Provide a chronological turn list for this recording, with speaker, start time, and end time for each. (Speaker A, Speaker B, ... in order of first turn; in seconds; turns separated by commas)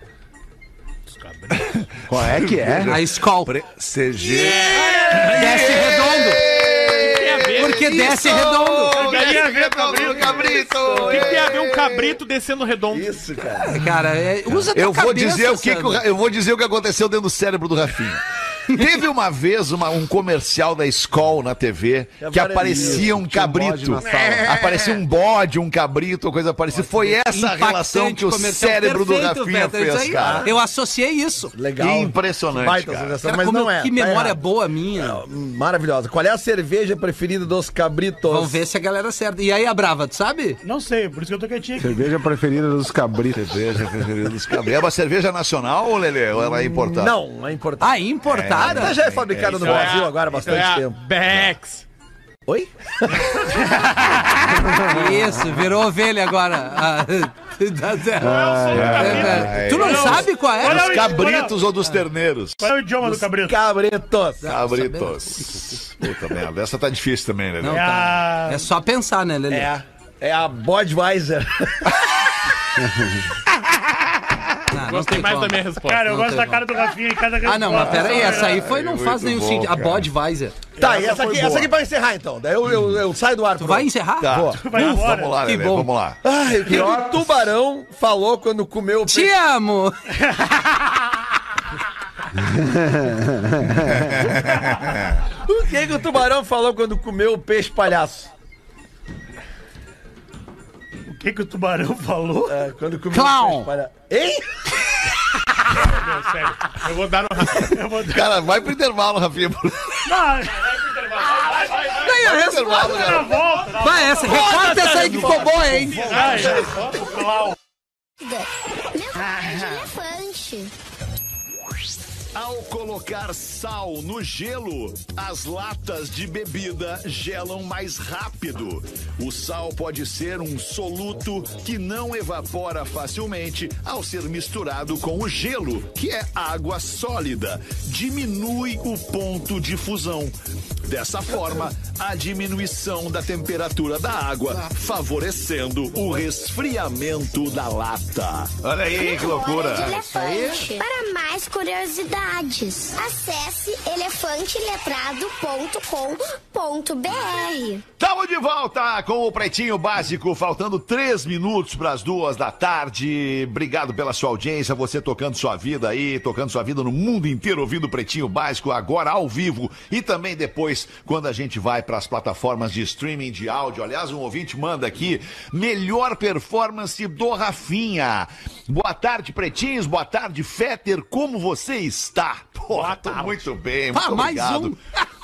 Speaker A: 1.6-12.2, Speaker B: 2.1-3.0, Speaker C: 2.7-3.5, Speaker D: 4.3-5.5, Speaker E: 4.3-5.2, Speaker C: 5.1-6.4, Speaker D: 6.5-7.1, Speaker E: 7.0-8.0, Speaker C: 7.5-9.0, Speaker F: 8.9-11.2, Speaker E: 9.0-13.2, Speaker D: 10.9-11.5, Speaker D: 12.9-13.8, Speaker C: 13.6-16.0, Speaker A: 14.5-30.5, Speaker D: 22.2-23.1, Speaker B: 22.7-24.4, Speaker D: 24.0-25.0, Speaker D: 26.7-27.1, Speaker C: 27.1-31.5, Speaker D: 30.2-30.5, Speaker D: 31.5-34.4, Speaker A: 31.8-33.2, Speaker C: 33.2-35.2, Speaker D: 35.0-38.6, Speaker C: 38.3-40.6, Speaker F: 40.6-42.1, Speaker B: 41.8-44.0, Speaker A: 43.3-47.1, Speaker D: 46.4-51.0, Speaker C: 47.8-49.0, Speaker A: 48.2-50.1, Speaker E: 49.5-51.8, Speaker D: 52.5-53.7, Speaker F: 53.5-54.5, Speaker D: 54.2-54.5, Speaker B: 54.6-55.5, Speaker C: 54.8-61.2, Speaker E: 58.2-60.0, Speaker B: 58.2-59.5, Speaker A: 58.7-62.7, Speaker F: 59.7-61.7, Speaker F: 62.6-63.6, Speaker D: 63.0-64.5, Speaker C: 64.4-65.7, Speaker A: 64.4-67.9, Speaker C: 67.6-69.7, Speaker F: 67.7-68.7, Speaker D: 69.5-71.9, Speaker B: 72.8-73.3, Speaker C: 74.7-76.7, Speaker E: 74.8-76.1, Speaker F: 75.8-78.7, Speaker C: 77.4-80.6, Speaker A: 77.8-80.1, Speaker D: 80.8-84.6, Speaker A: 80.8-81.7, Speaker B: 81.0-81.5, Speaker C: 83.6-85.9, Speaker A: 84.2-86.2, Speaker F: 84.6-85.5, Speaker D: 86.2-89.3, Speaker B: 86.7-87.3, Speaker C: 89.1-90.0, Speaker F: 90.3-90.6, Speaker B: 92.3-94.3, Speaker A: 93.9-95.2, Speaker D: 95.4-98.3, Speaker F: 101.1-102.6, Speaker D: 102.5-104.5, Speaker C: 103.1-103.7, Speaker F: 105.9-106.5, Speaker E: 105.9-107.7, Speaker F: 107.7-108.3, Speaker A: 108.0-110.2, Speaker F: 110.0-111.8, Speaker E: 111.1-112.1, Speaker C: 111.9-116.2, Speaker A: 112.1-113.5, Speaker F: 112.5-115.4, Speaker E: 113.7-117.1, Speaker A: 114.8-116.7, Speaker F: 116.0-117.5, Speaker G: 118.2-120.7, Speaker A: 122.3-150.1, Speaker G: 148.9-157.8, Speaker C: 149.9-150.8, Speaker A: 158.0-184.8, Speaker E: 182.7-183.5, Speaker C: 183.9-184.8